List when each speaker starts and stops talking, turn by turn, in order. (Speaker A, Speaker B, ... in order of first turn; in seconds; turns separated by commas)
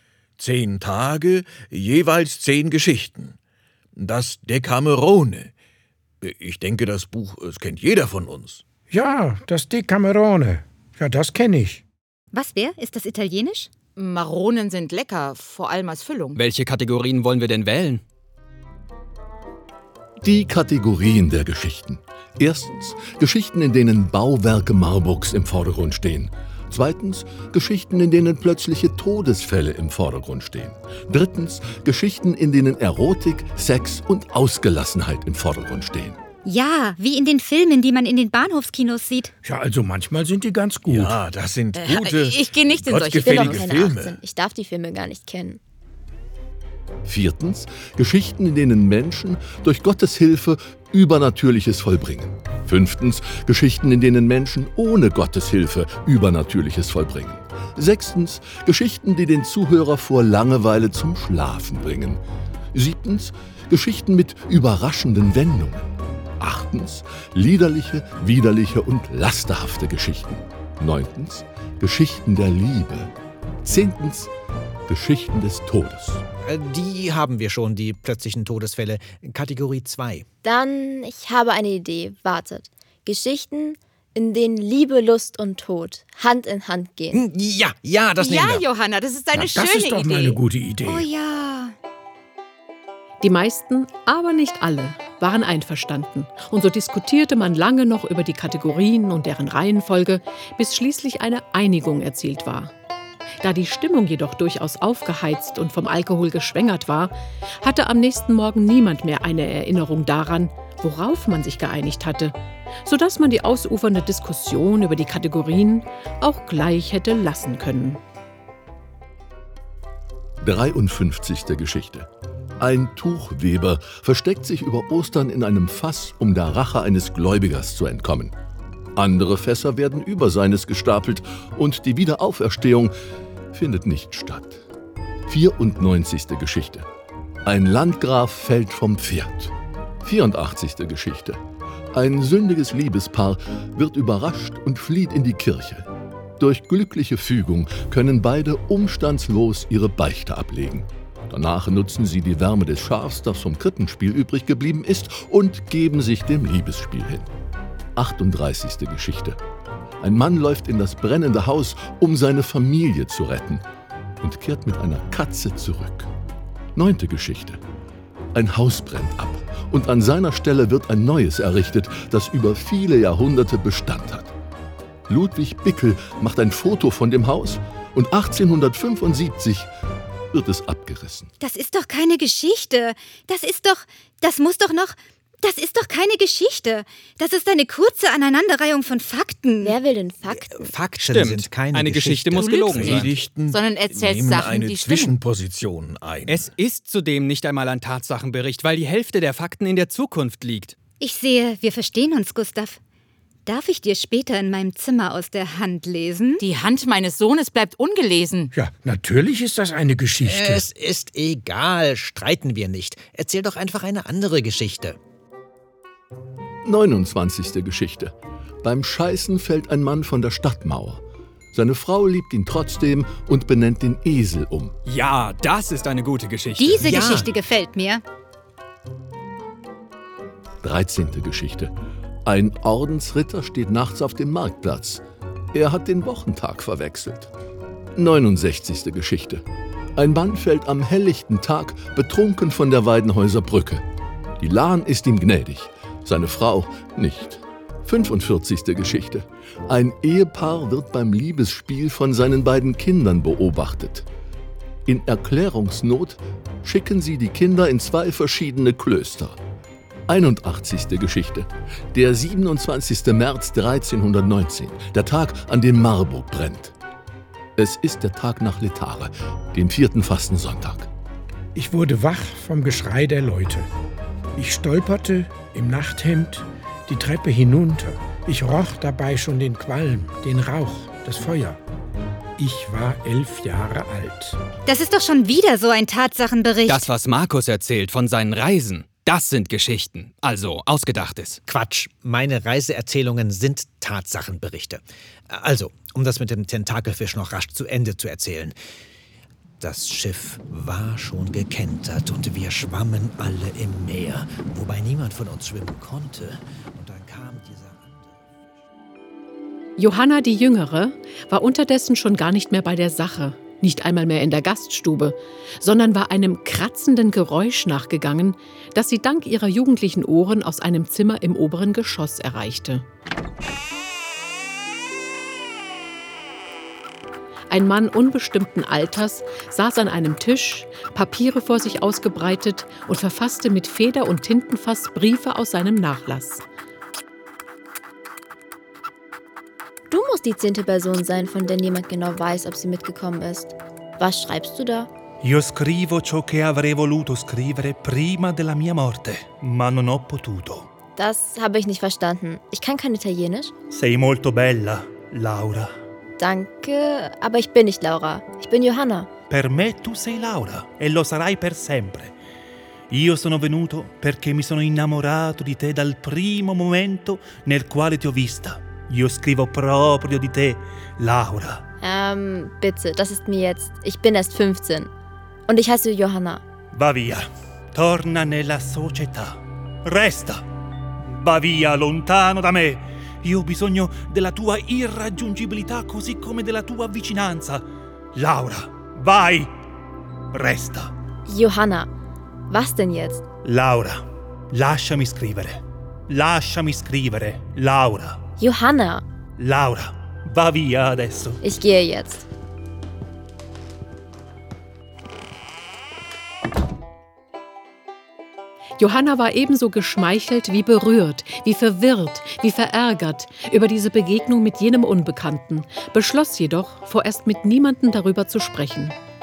Speaker A: 0.4-3.4, Speaker A: 4.0-5.5, Speaker A: 6.2-8.6, Speaker B: 8.9-11.8, Speaker C: 12.3-13.7, Speaker D: 13.9-16.4, Speaker E: 16.3-18.0, Speaker F: 20.2-36.2, Speaker C: 36.4-39.3, Speaker B: 39.4-41.2, Speaker A: 40.8-44.2, Speaker D: 41.7-43.7, Speaker G: 43.2-45.6, Speaker F: 47.0-62.2, Speaker F: 62.7-73.1, Speaker F: 73.6-74.3, Speaker F: 74.9-76.2, Speaker H: 76.4-80.2, Speaker G: 80.4-87.2, Speaker H: 87.1-88.7, Speaker D: 88.2-90.4, Speaker B: 89.3-91.1, Speaker C: 90.8-91.8, Speaker I: 93.2-102.7, Speaker I: 103.4-118.0, Speaker F: 120.4-122.1, Speaker F: 122.6-128.3, Speaker F: 128.9-132.9, Speaker F: 133.5-134.6, Speaker F: 135.3-136.9, Speaker F: 137.4-141.4, Speaker F: 141.9-157.3, Speaker F: 157.9-159.4, Speaker F: 160.0-163.6, Speaker F: 164.2-166.1, Speaker F: 166.7-167.6, Speaker F: 168.3-174.3, Speaker F: 175.1-179.7, Speaker F: 180.3-181.3, Speaker C: 181.4-189.8, Speaker G: 189.6-190.7, Speaker H: 190.4-193.0, Speaker E: 191.0-193.1, Speaker D: 192.4-195.1, Speaker A: 192.7-196.5, Speaker E: 196.3-200.8, Speaker C: 201.0-202.8, Speaker C: 203.4-206.4, Speaker D: 206.4-208.5, Speaker B: 208.5-210.6, Speaker H: 210.2-215.0, Speaker F: 216.6-224.7, Speaker E: 224.8-227.0, Speaker C: 226.6-228.0, Speaker H: 226.8-227.3, Speaker F: 230.6-231.7, Speaker F: 232.2-237.3, Speaker F: 237.9-239.4, Speaker F: 239.9-243.8, Speaker F: 244.4-254.1, Speaker F: 254.8-259.4, Speaker F: 260.1-266.7, Speaker F: 267.6-270.9, Speaker B: 271.5-273.7, Speaker B: 274.4-281.6, Speaker B: 282.4-284.4, Speaker C: 284.6-286.9, Speaker E: 286.7-291.4, Speaker H: 291.5-298.6, Speaker H: 299.6-308.2, Speaker I: 309.8-322.8, Speaker I: 327.5-336.4, Speaker G: 339.9-344.9, Speaker J: 345.2-350.7, Speaker G: 350.9-353.5, Speaker J: 353.7-355.8, Speaker G: 356.2-359.1, Speaker J: 359.3-362.1, Speaker J: 362.9-371.6, Speaker G: 371.8-374.9, Speaker G: 375.5-376.4, Speaker J: 376.7-380.4, Speaker J: 381.0-389.5, Speaker J: 390.3-390.9, Speaker G: 391.3-391.9, Speaker G: 392.5-393.2, Speaker J: 393.4-398.2, Speaker G: 398.4-399.0, Speaker J: 399.4-401.4, Speaker G: 401.4-402.2, Speaker I: 408.8-418.9